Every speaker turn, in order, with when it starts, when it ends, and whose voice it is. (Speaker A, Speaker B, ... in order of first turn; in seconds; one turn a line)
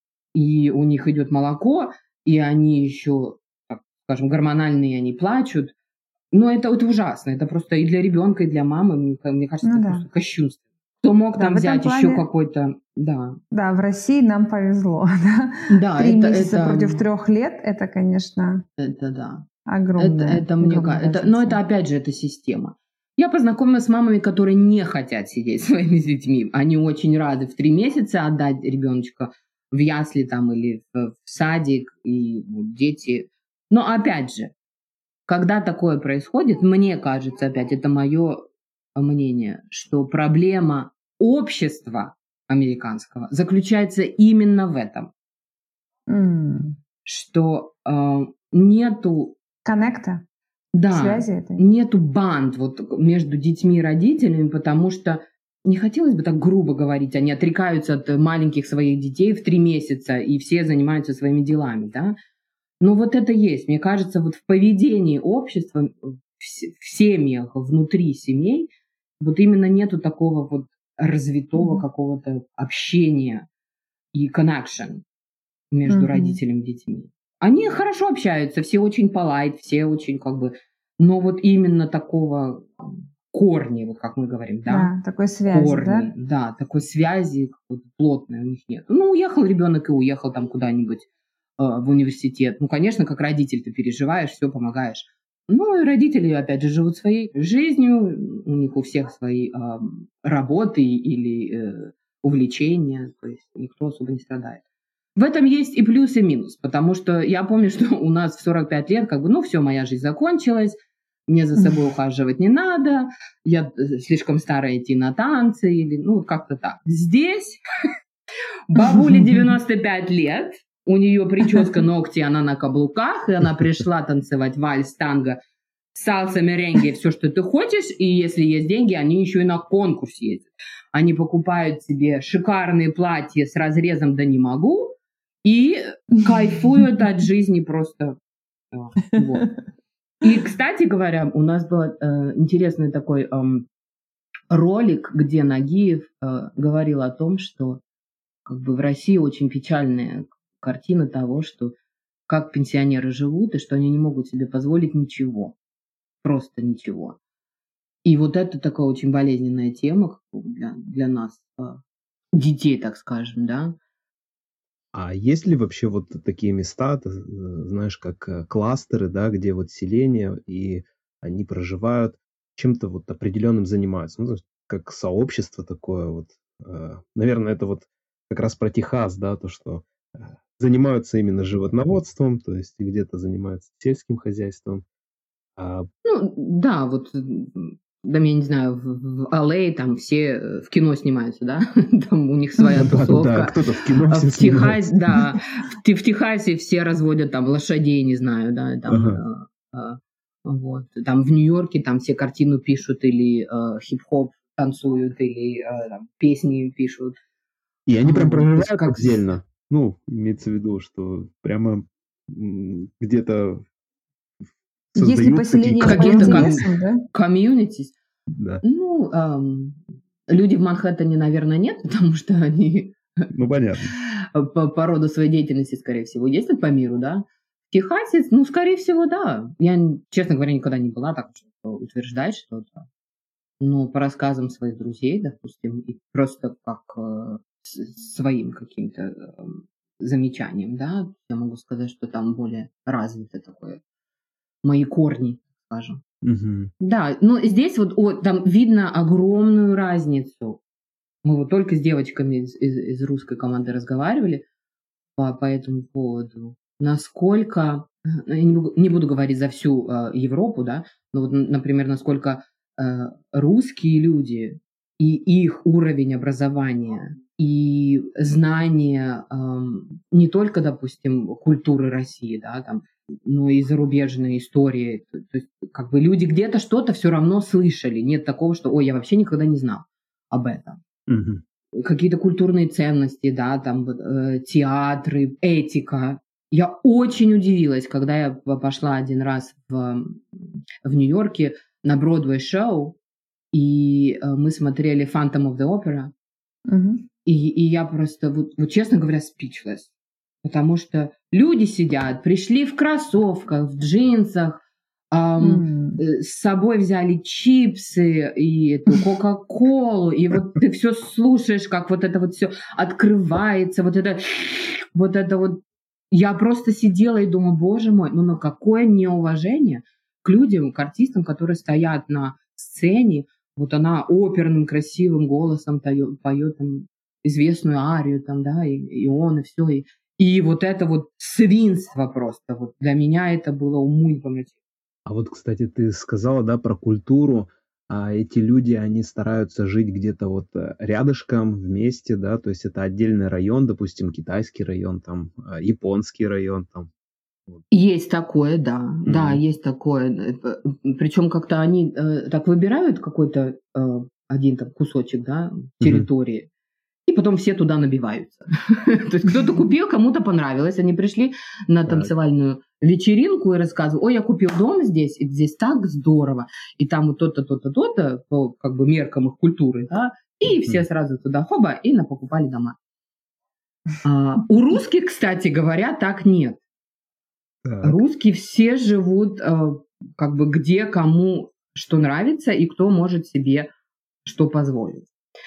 Speaker A: 0.3-5.7
Speaker A: 6.3-13.4
Speaker B: 9.6-10.1
Speaker B: 11.3-12.3
Speaker B: 13.5-18.6
Speaker A: 15.7-17.1
Speaker A: 18.8-19.5
Speaker B: 19.7-21.6
Speaker A: 20.0-34.5
Speaker A: 35.3-38.4
Speaker A: 39.0-45.1
Speaker B: 46.1-46.8
Speaker A: 47.0-49.4
Speaker B: 49.6-50.2
Speaker A: 50.7-62.2
Speaker B: 50.9-51.6
Speaker A: 62.8-73.5
Speaker B: 71.6-71.8
Speaker A: 74.1-75.0
Speaker A: 75.7-84.9
Speaker B: 75.9-76.4
Speaker B: 84.7-86.1
Speaker A: 85.5-91.1
Speaker A: 91.6-104.6
Speaker A: 105.2-117.6
Speaker A: 118.7-125.4
Speaker B: 118.8-119.4
Speaker A: 125.9-138.2
Speaker A: 138.7-139.5
Speaker A: 140.2-143.7
Speaker A: 144.5-147.8
Speaker A: 148.5-151.8
Speaker A: 152.3-155.6
Speaker A: 156.2-157.2
Speaker A: 158.1-161.8
Speaker A: 162.3-163.8
Speaker C: 164.9-184.8
Speaker C: 185.6-185.9
Speaker A: 186.1-193.6
Speaker C: 192.8-194.9
Speaker A: 194.1-207.2
Speaker C: 198.9-199.2
Speaker C: 207.9-213.6
Speaker A: 208.0-209.4
Speaker C: 214.9-216.7
Speaker B: 215.0-217.0
Speaker A: 215.8-217.9
Speaker C: 218.3-218.6
Speaker A: 218.6-223.0
Speaker C: 223.3-223.9
Speaker A: 223.9-232.9
Speaker A: 233.6-243.8
Speaker A: 244.6-246.0
Speaker C: 246.2-246.7
Speaker A: 246.8-250.6
Speaker A: 251.2-254.4
Speaker A: 255.2-280.8
Speaker C: 281.1-281.4
Speaker A: 281.8-293.0
Speaker A: 293.5-296.1
Speaker B: 296.7-297.1
Speaker A: 297.2-299.9
Speaker A: 300.4-334.5
Speaker B: 305.4-306.0
Speaker C: 335.1-346.9
Speaker A: 347.7-356.5
Speaker C: 349.1-349.4
Speaker C: 355.8-356.1
Speaker A: 357.1-372.8
Speaker C: 361.9-362.1
Speaker A: 374.0-376.6
Speaker C: 377.7-378.0
Speaker A: 377.8-383.7
Speaker A: 384.2-385.1